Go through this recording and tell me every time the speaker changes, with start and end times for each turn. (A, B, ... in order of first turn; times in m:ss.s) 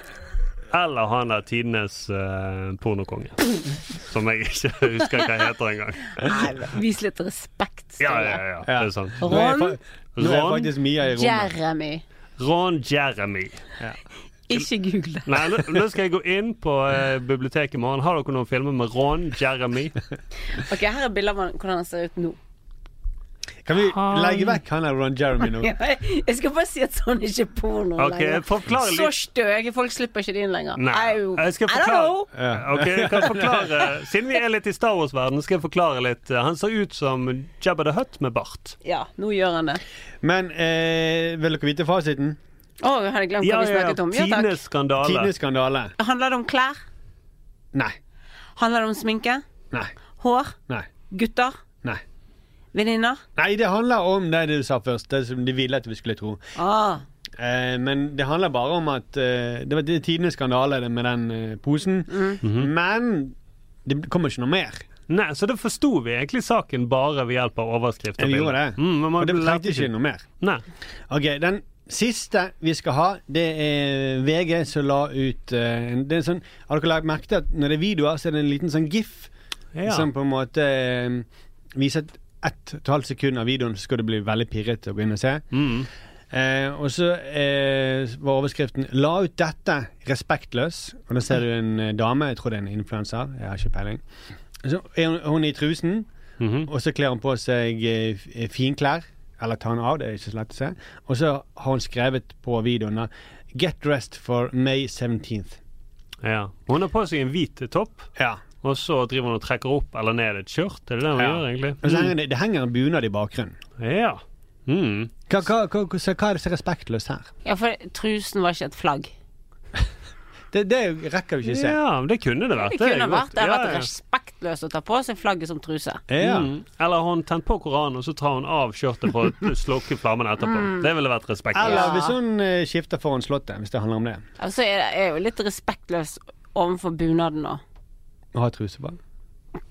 0:00.7-0:06.3 A
0:06.2-0:08.4 B
0:08.0-0:09.5 A
0:08.7-0:11.5 C
0:09.2-0:09.8 B
0:10.2-0:10.7 A
0:11.1-0:12.0 B
0:12.4-0:13.6 A
0:14.5-0:15.5 B
0:15.3-0:20.0 A
0:20.5-0:22.4 B
0:23.6-0:25.7 C
0:23.8-0:24.6 A
0:25.4-0:32.3 B
0:28.0-0:29.1 A
0:30.8-0:38.8 A
0:32.4-0:33.7 C
0:38.8-0:39.8 B
0:40.2-0:42.4 C
0:42.8-0:44.6 B
0:43.4-0:45.3 A
0:45.0-0:45.9 C
0:46.0-0:46.8 B
0:48.6-0:49.4 B
0:50.2-0:50.6 B
0:51.1-0:51.6 B
0:52.7-0:53.2 B
0:53.4-0:56.4 C
0:56.6-0:57.0 B
0:57.4-1:04.9 C
1:02.1-1:02.4 B
1:02.4-1:02.7 A
1:05.1-1:10.6 A
1:08.2-1:10.3 C
1:11.1-1:19.3 C
1:19.8-1:20.1 A
1:19.9-1:25.5 C
1:25.5-1:25.9 A
1:26.3-1:34.0 C
1:34.6-1:36.1 C
1:36.4-1:36.7 A
1:36.7-1:45.6 C
1:46.2-1:48.1 A
1:48.2-1:48.4 C
1:48.6-1:52.1 A
1:51.2-1:53.6 C
1:53.8-1:55.1 A
1:55.3-1:57.3 C
1:57.4-1:59.1 B
2:00.5-2:01.8 C
2:01.4-2:03.9 A
2:02.6-2:06.0 B
2:06.1-2:06.5 C
2:06.2-2:11.9 A
2:10.5-2:10.9 B
2:11.5-2:14.2 C
2:11.6-2:12.2 B
2:14.4-2:17.6 B
2:18.3-2:19.0 C